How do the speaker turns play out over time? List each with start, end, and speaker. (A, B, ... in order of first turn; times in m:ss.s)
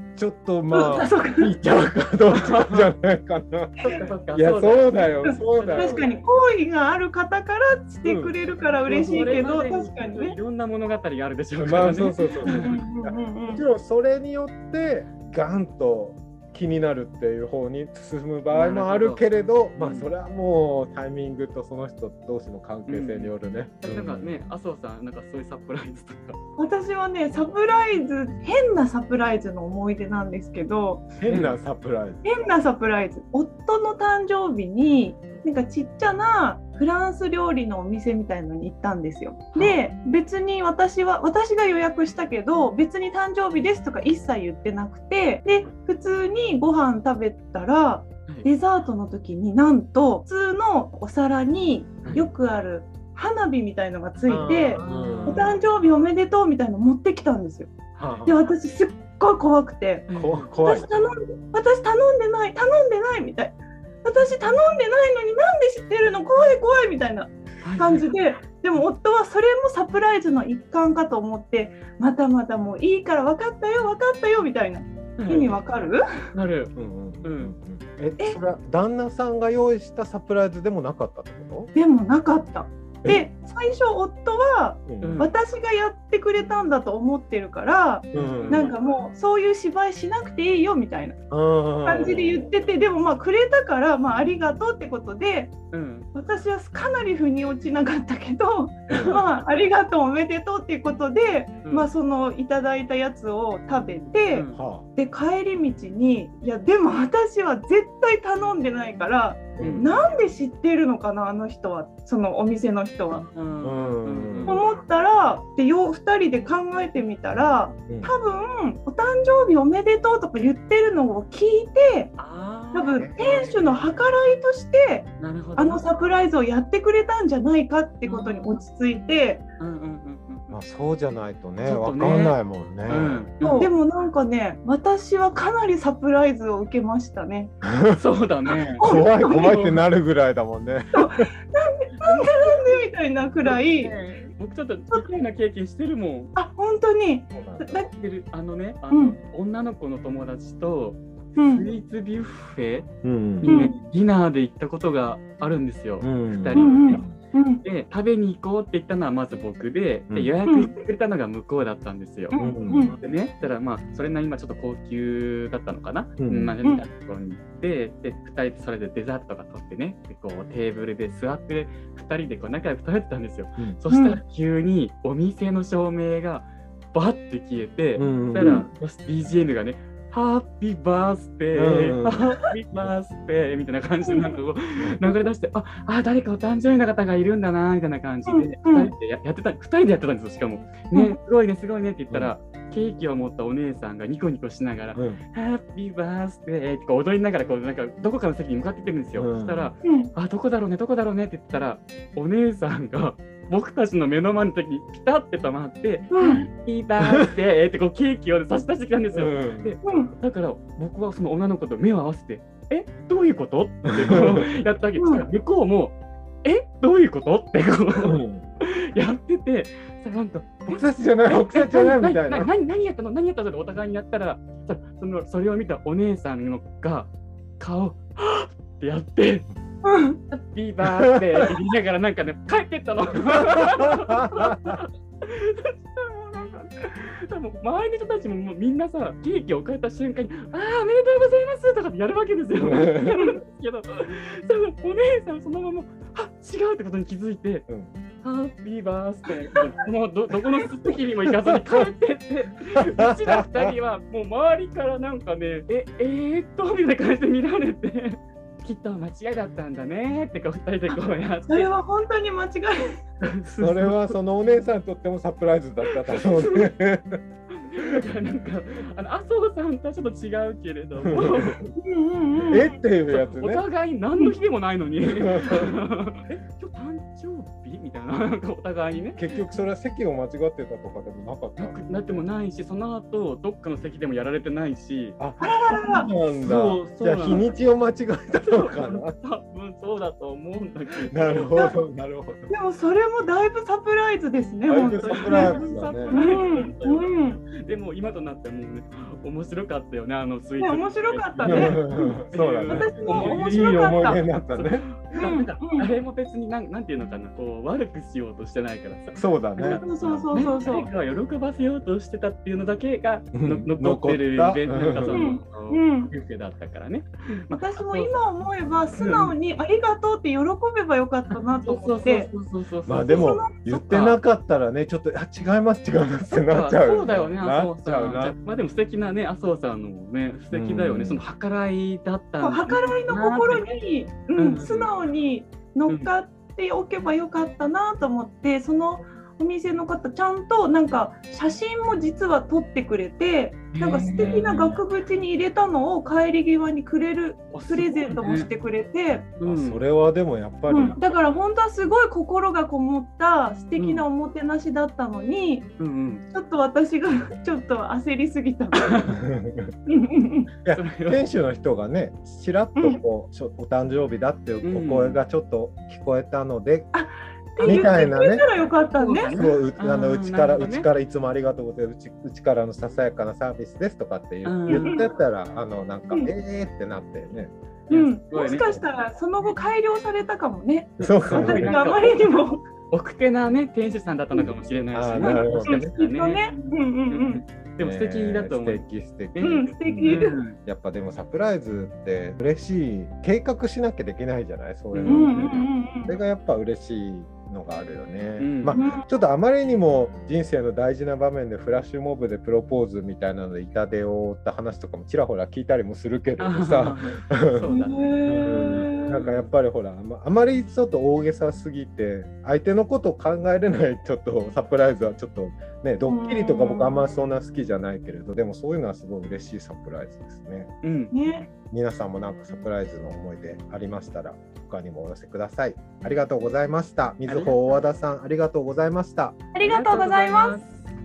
0:00.2-0:06.0 A
0:00.7-0:01.5 B
0:02.3-0:02.9 C
0:03.8-0:04.1 B
0:03.9-0:06.0 C
0:05.2-0:10.4 B
0:08.0-0:08.4 A
0:08.9-0:12.8 C
0:11.6-0:24.3 A
0:12.4-0:13.6 B
0:18.5-0:19.2 C
0:19.8-0:20.1 C
0:22.9-0:26.4 C
0:26.6-0:31.1 B
0:31.2-0:32.2 A
0:31.3-0:31.6 C
0:32.2-1:16.3 B
0:39.5-0:39.8 C
0:54.3-0:55.6 A
0:54.8-0:55.5 C
0:58.0-0:58.4 A
1:00.1-1:00.6 C
1:00.2-1:00.9 A
1:07.6-1:08.1 C
1:15.2-1:15.6 C
1:16.3-1:17.5 C
1:16.8-1:21.7 A
1:21.8-1:31.2 B
1:24.9-1:25.2 A
1:25.0-1:25.3 C
1:28.1-1:28.7 A
1:28.2-1:28.7 C
1:31.3-1:32.5 A
1:31.8-1:35.5 B
1:35.7-1:36.1 C
1:36.1-1:53.2 B
1:38.9-1:39.2 A
1:38.9-1:39.2 C
1:41.6-1:41.9 C
1:44.1-1:44.6 C
1:44.5-1:44.9 A
1:49.6-1:49.9 A
1:49.6-1:49.9 C
1:53.1-1:54.6 C
1:53.6-1:54.6 A
1:54.5-2:02.1 B
1:57.9-1:58.1 A
2:02.2-2:03.5 C
2:02.7-2:09.4 B
2:03.0-2:03.5 A
2:05.2-2:05.8 C
2:08.0-2:08.6 C
2:09.6-2:10.6 C
2:10.5-2:13.6 A
2:11.6-2:13.7 C
2:13.6-2:17.5 B
2:17.6-2:18.0 A
2:17.9-2:18.9 C
2:18.7-2:21.3 A
2:18.8-2:19.7 B
2:20.9-2:24.0 B
2:22.0-2:22.6 C
2:23.5-2:26.3 C
2:26.4-2:27.9 B
2:27.4-2:27.8 A
2:27.9-2:37.0 C
2:28.9-2:29.2 B
2:31.4-2:31.7 B
2:33.0-2:33.6 A
2:33.4-2:33.8 B
2:36.0-2:37.1 A
2:36.5-2:37.6 B
2:37.6-2:42.4 C
2:40.5-2:40.7 B
2:42.3-2:42.9 B
2:42.4-2:43.0 A
2:43.0-3:49.5 C
2:46.2-2:46.6 A
2:53.9-2:54.2 B
2:58.0-2:58.6 A
2:58.4-2:58.7 B
3:01.5-3:02.3 A
3:04.1-3:04.3 B
3:08.3-3:08.9 B
3:15.0-3:15.2 A
3:19.2-3:19.7 A
3:19.8-3:20.1 B
3:26.1-3:26.5 B
3:29.1-3:29.8 A
3:29.8-3:30.1 B
3:34.0-3:34.5 A
3:35.0-3:35.2 B
3:38.0-3:38.4 A
3:40.7-3:42.5 A
3:49.8-3:50.2 B
3:50.3-4:07.7 C
3:51.1-3:51.4 A
3:53.6-3:54.8 A
4:02.6-4:03.2 A
4:08.2-4:21.7 C
4:11.3-4:11.8 A
4:12.8-4:13.7 A
4:21.5-4:23.0 B
4:23.2-4:24.2 C
4:23.6-4:27.2 A
4:26.0-4:26.7 C
4:27.5-4:31.6 C
4:31.1-4:31.7 A
4:31.8-4:32.7 B
4:32.5-4:33.6 A
4:33.1-4:39.2 C
4:35.0-4:35.8 A
4:39.2-4:42.2 A
4:41.6-4:45.2 C
4:45.2-4:49.2 A
4:45.4-4:46.1 B
4:46.4-4:47.5 C
4:48.4-4:51.5 C
4:51.1-4:52.5 A
4:52.5-4:57.4 B
4:54.7-4:56.2 A
4:55.0-5:18.1 C
5:00.6-5:04.2 B
5:01.4-5:04.9 A
5:05.1-5:05.9 B
5:09.2-5:10.3 A
5:09.6-5:10.9 B
5:13.3-5:15.3 A
5:15.1-5:16.1 B
5:17.5-5:22.3 B
5:19.0-5:19.4 C
5:21.5-5:24.2 C
5:22.9-5:28.4 A
5:23.1-5:23.6 B
5:26.3-5:33.7 C
5:30.5-5:31.2 A
5:32.4-5:49.3 B
5:34.4-5:34.9 C
5:43.7-5:44.8 C
5:44.2-5:44.5 A
5:47.5-5:48.5 C
5:49.4-5:49.8 C
5:49.4-5:51.0 A
5:50.7-5:55.7 B
5:53.8-5:54.0 C
5:55.8-5:56.2 C
5:56.3-5:59.2 B
5:58.8-5:59.1 C
5:59.1-5:59.7 A
5:59.9-6:00.5 B
6:00.6-6:06.9 A
6:00.7-6:01.2 C
6:02.8-6:03.0 B
6:04.6-6:05.2 C
6:06.9-6:09.4 B
6:07.6-6:08.4 A
6:07.6-6:07.9 C
6:08.9-6:10.9 C
6:09.3-6:17.5 A
6:14.4-6:14.9 C
6:14.7-6:15.1 B
6:17.9-6:18.6 C
6:17.9-6:22.6 B
6:21.0-6:21.8 A
6:21.3-6:22.3 C
6:22.9-6:26.4 C
6:24.9-6:25.9 A
6:25.2-6:27.4 B
6:27.1-6:30.6 C
6:27.8-6:47.7 A
6:29.4-6:30.4 B
6:34.9-6:35.6 C
6:35.1-6:36.2 B
6:38.4-6:38.8 C
6:38.7-6:39.1 B
6:46.4-6:49.5 C
6:47.7-6:49.2 B
6:48.3-7:00.7 A
6:56.1-6:57.0 B
7:00.8-7:01.1 C
7:01.1-7:01.5 B
7:01.5-7:09.4 A
7:07.2-7:07.6 C
7:09.5-7:10.6 B
7:09.6-7:10.9 C